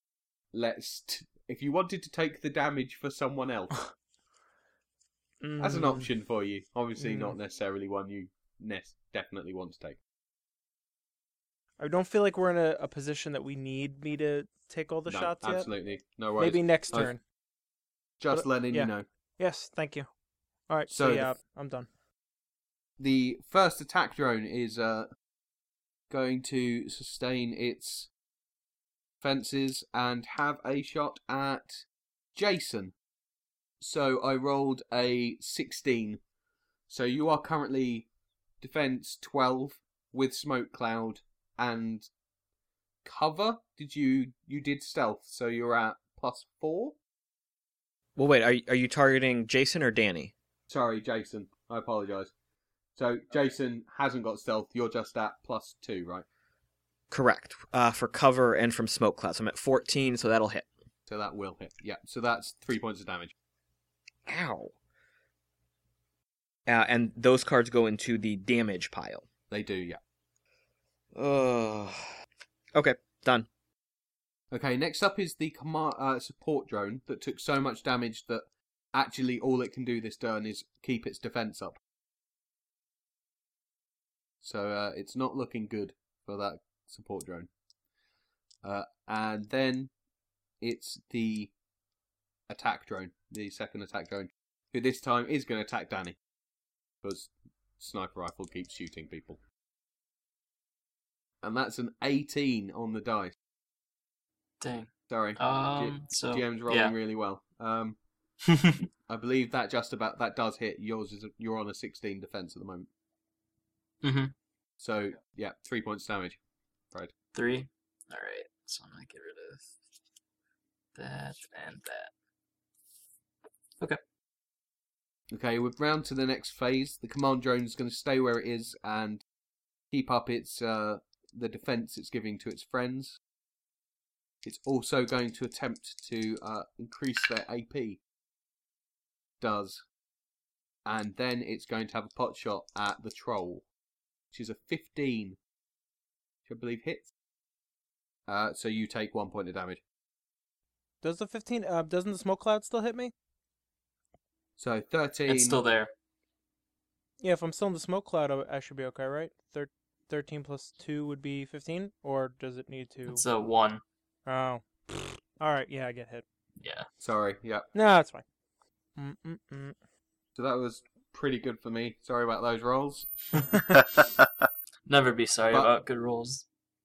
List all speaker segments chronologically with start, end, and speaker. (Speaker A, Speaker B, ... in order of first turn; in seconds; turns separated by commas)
Speaker A: 0.5-3.8, Speaker B: 5.4-6.1, Speaker A: 5.6-10.0, Speaker B: 7.0-7.3, Speaker B: 11.8-15.7, Speaker A: 15.1-17.1, Speaker B: 16.4-17.2, Speaker A: 18.2-19.0, Speaker B: 18.3-20.1, Speaker B: 20.7-21.9, Speaker A: 20.9-21.3, Speaker A: 23.0-25.1, Speaker A: 26.1-28.1, Speaker A: 29.2-31.8, Speaker A: 32.3-32.9, Speaker A: 33.8-36.2, Speaker A: 36.9-38.1, Speaker A: 38.6-42.1, Speaker A: 43.0-47.0, Speaker C: 48.1-50.3, Speaker A: 50.7-52.3, Speaker A: 53.0-56.2, Speaker C: 57.1-60.7, Speaker A: 61.1-63.3, Speaker C: 64.2-64.7, Speaker C: 66.7-69.2, Speaker A: 69.5-70.0, Speaker C: 71.1-72.1, Speaker C: 72.7-73.5, Speaker A: 74.5-78.4, Speaker A: 78.9-81.8, Speaker A: 84.4-87.5, Speaker A: 88.6-89.9, Speaker A: 90.6-91.5, Speaker A: 92.5-96.2, Speaker A: 97.0-99.4, Speaker A: 101.4-103.3, Speaker D: 104.6-106.9, Speaker A: 105.1-108.0, Speaker A: 109.1-112.9, Speaker D: 114.0-114.3, Speaker A: 114.8-116.4, Speaker D: 117.3-119.7, Speaker D: 120.9-122.1, Speaker A: 125.3-129.2, Speaker A: 129.9-133.2, Speaker A: 134.4-138.0, Speaker A: 139.4-139.8, Speaker A: 140.8-143.6, Speaker A: 144.3-145.4, Speaker A: 146.4-147.1, Speaker A: 148.3-149.8, Speaker B: 151.0-153.1, Speaker A: 154.6-155.6, Speaker D: 155.3-155.9, Speaker B: 157.2-163.2, Speaker D: 163.1-163.8, Speaker B: 164.2-166.2, Speaker D: 166.6-166.9, Speaker A: 167.0-167.7, Speaker B: 167.7-168.2, Speaker B: 169.0-169.8, Speaker A: 170.3-173.5, Speaker D: 174.9-176.4